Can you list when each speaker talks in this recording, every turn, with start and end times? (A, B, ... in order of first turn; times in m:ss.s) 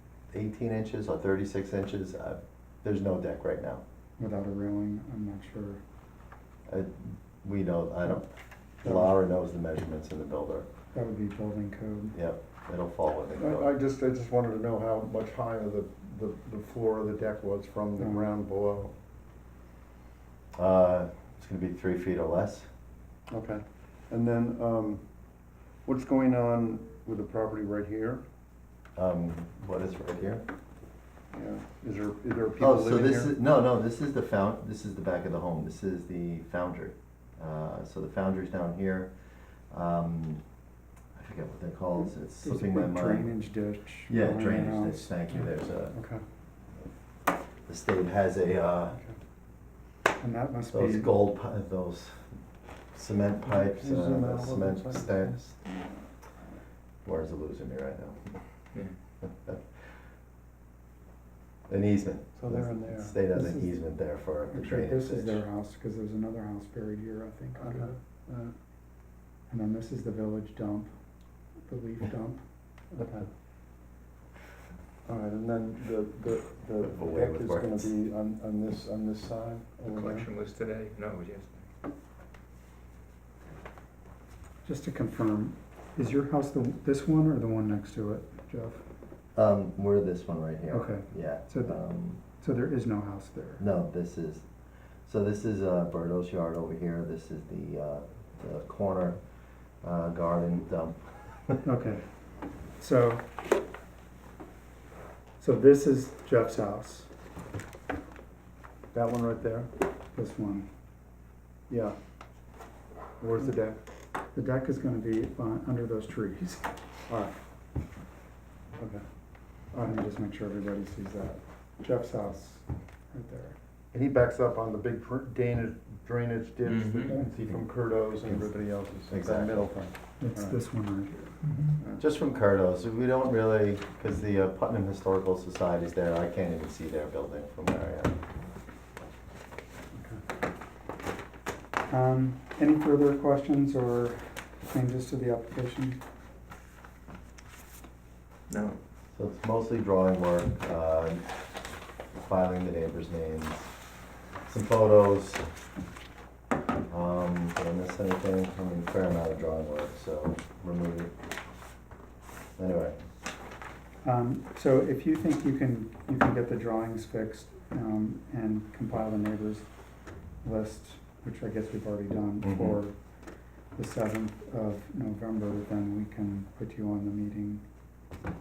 0:00.3-0:03.8 A
0:04.2-0:05.8 B
0:06.7-0:08.3 A
0:08.8-0:09.2 B
0:08.8-0:10.7 A
0:10.9-0:12.2 B
0:12.1-0:13.7 A
0:13.4-0:18.9 C
0:18.0-0:18.3 B
0:20.6-0:22.7 A
0:23.3-0:25.0 C
0:25.8-0:28.2 C
0:29.0-0:30.4 A
0:31.3-0:33.3 C
0:32.6-0:40.4 A
0:41.2-0:43.3 A
0:42.4-0:45.1 B
0:44.1-0:45.9 A
0:45.3-0:46.2 C
0:47.7-0:49.0 A
0:48.9-0:49.2 C
0:50.2-0:51.1 B
0:50.7-0:52.3 A
0:52.9-0:55.5 A
0:53.5-0:55.4 C
0:57.0-0:58.2 A
0:59.2-0:59.6 A
1:01.7-1:05.4 A
1:02.4-1:03.1 C
1:03.3-1:03.8 B
1:04.5-1:07.9 B
1:07.6-1:08.5 C
1:09.5-1:10.9 B
1:11.6-1:12.4 B
1:12.9-1:13.3 C
1:15.0-1:20.3 C
1:16.8-1:17.9 A
1:19.9-1:21.6 D
1:24.6-1:28.8 B
1:29.3-1:32.2 A
1:30.7-1:31.8 B
1:32.3-1:33.6 B
1:33.6-1:34.4 A
1:35.0-1:39.2 A
1:39.8-1:41.6 A
1:41.6-1:42.1 B
1:42.7-1:43.2 B
1:45.4-1:47.1 B
1:48.9-1:49.7 C
1:50.1-1:50.7 B
1:51.7-1:52.0 C
1:53.2-1:53.8 C
1:54.3-1:56.6 B
1:57.1-1:57.3 C
1:58.8-1:59.0 C
1:59.8-2:03.6 B
2:03.9-2:10.6 C
2:06.6-2:07.1 D
2:07.3-2:07.6 A
2:08.2-2:08.5 A
2:09.1-2:09.7 A
2:10.2-2:11.6 B
2:12.0-2:18.1 A
2:19.9-2:20.2 C
2:21.9-2:26.0 B
2:28.5-2:28.8 D
2:29.1-2:31.2 A
2:32.1-2:33.7 A
2:34.4-2:35.4 A
2:36.9-2:41.1 A
2:42.6-2:43.0 A
2:44.0-2:49.6 B
2:50.4-2:52.9 B
2:52.4-2:52.8 A
2:53.7-2:57.6 B